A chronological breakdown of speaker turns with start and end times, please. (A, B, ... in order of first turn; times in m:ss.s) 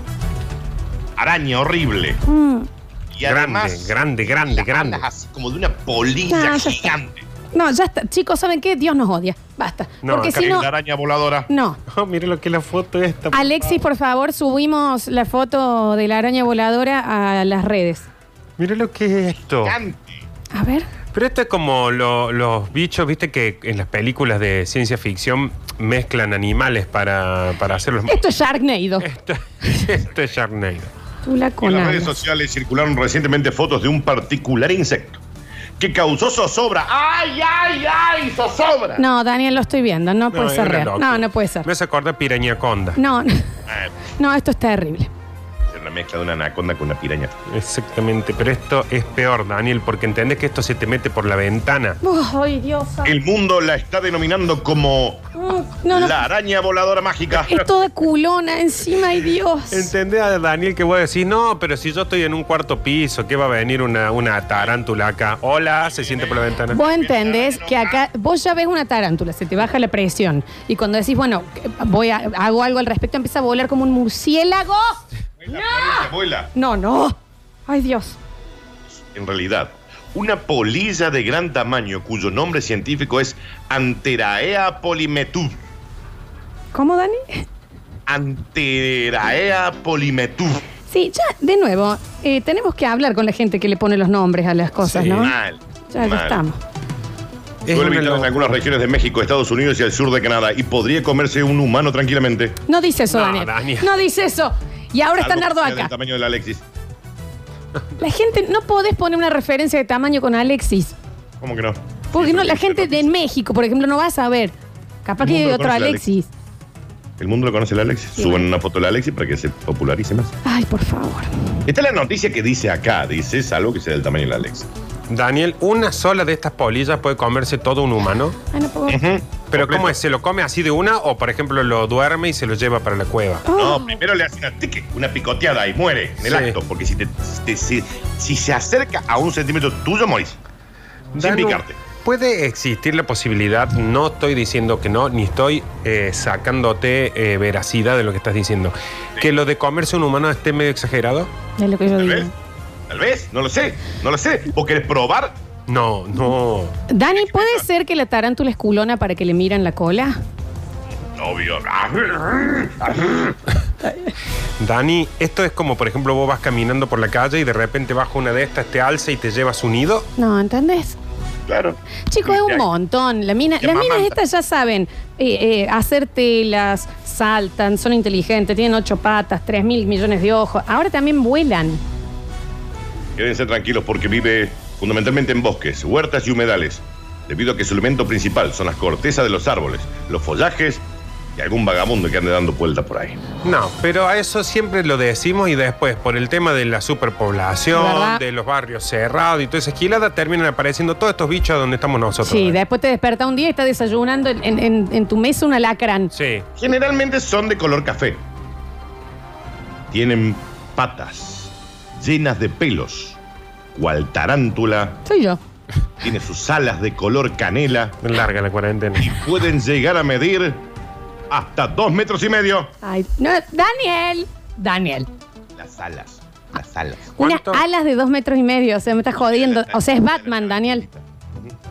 0:01.2-0:02.2 A
0:02.3-0:02.7 B
0:03.1-0:07.3 A
0:03.3-0:05.0 C
0:06.3-0:06.9 B
0:07.5-0:10.7 B
0:10.0-0:10.4 C
0:10.3-0:11.5 A
0:11.5-0:11.8 B
0:11.9-0:13.8 C
0:13.3-0:18.0 B
0:18.6-0:19.8 C
0:19.6-0:20.2 A
0:20.5-0:20.9 B
0:21.1-0:28.2 C
0:28.1-0:29.1 B
0:29.0-0:30.9 C
0:31.2-0:32.2 B
0:31.6-0:35.2 A
0:35.8-0:39.0 A
0:39.0-0:41.7 B
0:40.3-0:43.0 C
0:43.0-0:43.5 B
0:43.7-0:43.9 A
0:44.2-0:45.1 B
0:45.7-0:47.3 A
0:47.5-0:52.0 C
0:52.0-0:53.2 B
0:53.0-0:55.2 A
0:55.4-0:56.2 B
0:55.8-0:57.7 A
0:57.3-0:59.9 B
0:59.7-1:06.8 C
1:05.6-1:08.0 A
1:06.7-1:18.2 B
1:15.4-1:16.5 A
1:19.1-1:25.6 A
1:26.7-1:27.5 B
1:28.1-1:30.6 A
1:30.9-1:35.3 B
1:34.8-1:35.3 C
1:35.0-1:36.4 A
1:35.9-1:36.6 B
1:37.7-1:42.6 A
1:37.7-1:38.5 C
1:42.7-1:45.9 B
1:43.1-1:43.9 C
1:45.2-1:46.6 A
1:48.0-1:51.0 B
1:51.4-1:53.2 A
1:52.1-1:56.3 B
1:55.2-1:56.0 A
1:57.2-2:00.3 A
1:58.2-1:58.5 B
2:00.4-2:01.3 B
2:01.7-2:04.7 A
2:05.1-2:08.4 C
2:08.5-2:09.0 B
2:08.9-2:10.0 A
2:09.5-2:13.4 C
2:13.4-2:14.0 B
2:13.5-2:20.4 A
2:16.2-2:16.6 C
2:21.1-2:31.3 C
2:21.2-2:21.8 A
2:31.6-2:32.3 B
2:32.0-2:32.3 A
2:32.9-2:35.4 A
2:35.7-2:36.7 C
2:36.9-2:40.2 B
2:37.1-2:37.7 A
2:41.2-2:43.4 A
2:43.8-2:44.1 B
2:44.6-2:50.1 C
2:50.2-2:51.0 B
2:51.5-2:52.7 A
2:52.1-3:01.8 B
2:53.6-2:54.2 A
3:03.2-3:10.8 A
3:11.4-3:13.2 A
3:13.4-3:22.6 C
3:17.7-3:18.2 B
3:22.2-3:26.1 B
3:26.1-3:26.4 C
3:26.6-3:28.2 A
3:29.9-3:33.2 A
3:33.7-3:35.0 A
3:35.0-3:35.4 B
3:36.0-3:38.0 A
3:38.0-3:39.1 C
3:39.0-3:40.6 A
3:41.3-3:42.7 A
3:42.8-3:45.1 B
3:45.6-3:47.1 A
3:47.2-3:47.6 C
3:47.2-3:50.8 B
3:49.2-3:51.5 A